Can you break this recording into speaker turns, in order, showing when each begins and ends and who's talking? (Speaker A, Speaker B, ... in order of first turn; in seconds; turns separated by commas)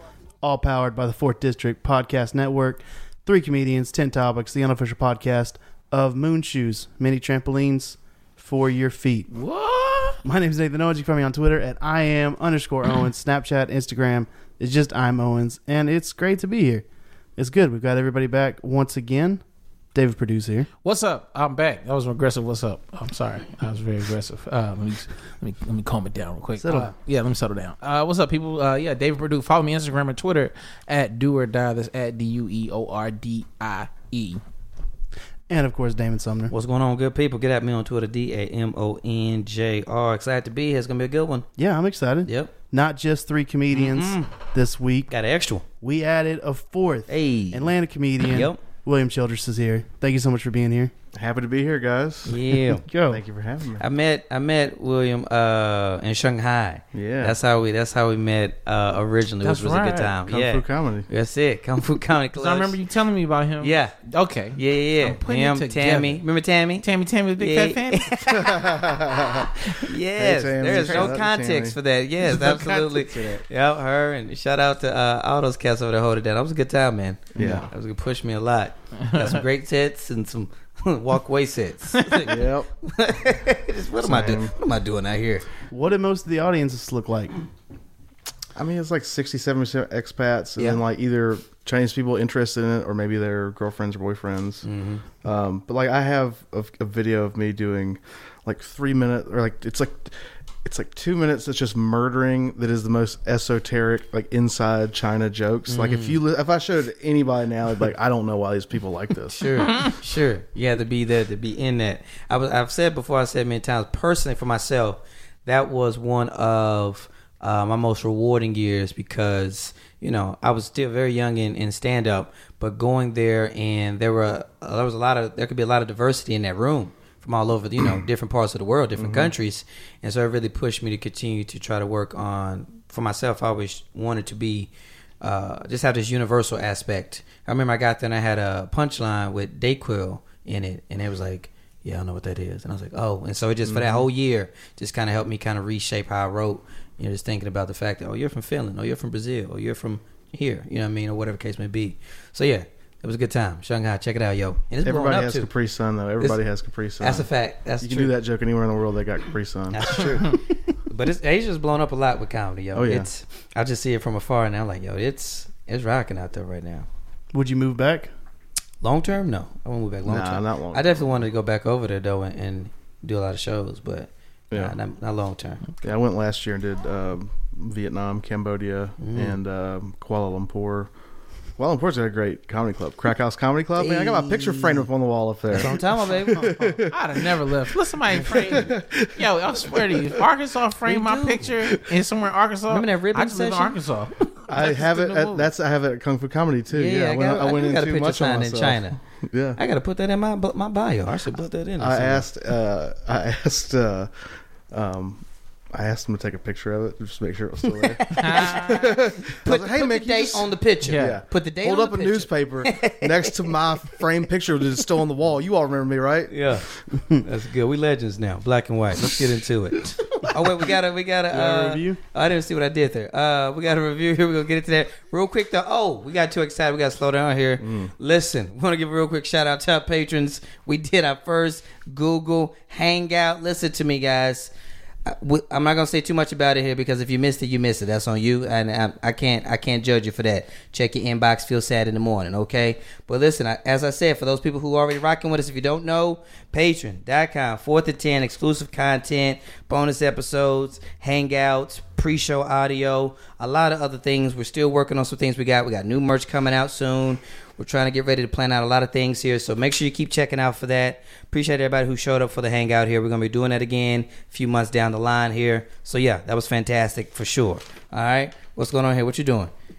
Speaker A: 0.4-9.3, Speaker B: 9.3-10.2, Speaker A: 10.2-16.8, Speaker A: 17.4-19.4, Speaker A: 19.9-20.7, Speaker B: 20.8-34.4, Speaker A: 26.6-26.9, Speaker A: 35.5-36.5, Speaker C: 36.5-41.4, Speaker A: 41.6-45.1, Speaker C: 42.2-42.5, Speaker C: 43.7-44.3, Speaker C: 45.1-45.6, Speaker A: 45.8-50.9, Speaker C: 47.1-47.7, Speaker C: 48.2-48.6, Speaker D: 51.1-52.4, Speaker C: 52.2-52.8, Speaker A: 52.7-53.2, Speaker D: 53.1-53.8, Speaker C: 53.8-62.7, Speaker D: 56.9-57.4, Speaker B: 59.4-60.1, Speaker D: 60.2-61.1, Speaker B: 62.3-66.2, Speaker C: 63.6-63.9, Speaker C: 64.5-66.8, Speaker B: 66.8-68.3, Speaker C: 67.4-69.0, Speaker D: 68.3-69.5, Speaker C: 69.6-85.4, Speaker D: 70.2-71.8, Speaker B: 70.6-71.2, Speaker B: 72.2-73.4, Speaker D: 77.3-77.7, Speaker B: 77.4-77.7, Speaker B: 79.0-79.4, Speaker B: 82.0-82.3, Speaker D: 82.2-82.7, Speaker D: 84.0-84.5, Speaker A: 85.7-87.3, Speaker D: 88.5-94.7, Speaker C: 94.6-95.0, Speaker D: 95.2-100.1, Speaker D: 100.6-109.5, Speaker C: 105.7-106.2, Speaker C: 109.3-134.7, Speaker B: 109.6-109.9, Speaker D: 129.0-129.3, Speaker C: 135.2-155.5, Speaker D: 143.6-144.0, Speaker D: 154.8-157.3, Speaker C: 157.0-158.1, Speaker D: 157.8-160.2, Speaker C: 159.7-166.9, Speaker D: 162.7-163.1, Speaker A: 167.3-168.1, Speaker C: 168.8-175.6, Speaker D: 170.1-171.1, Speaker D: 175.8-180.9, Speaker C: 179.0-179.4, Speaker D: 181.6-187.3, Speaker C: 183.8-184.9, Speaker C: 185.5-186.8, Speaker B: 186.9-195.5, Speaker D: 188.1-190.2, Speaker C: 190.9-191.6, Speaker C: 192.7-193.8, Speaker D: 194.5-199.6, Speaker C: 196.7-199.0, Speaker C: 199.6-202.2, Speaker D: 201.8-204.1, Speaker D: 204.7-216.3, Speaker C: 207.8-213.5, Speaker B: 208.2-208.9, Speaker B: 210.8-211.2, Speaker C: 216.3-234.5, Speaker A: 221.3-222.0, Speaker D: 227.6-227.9, Speaker C: 235.1-269.5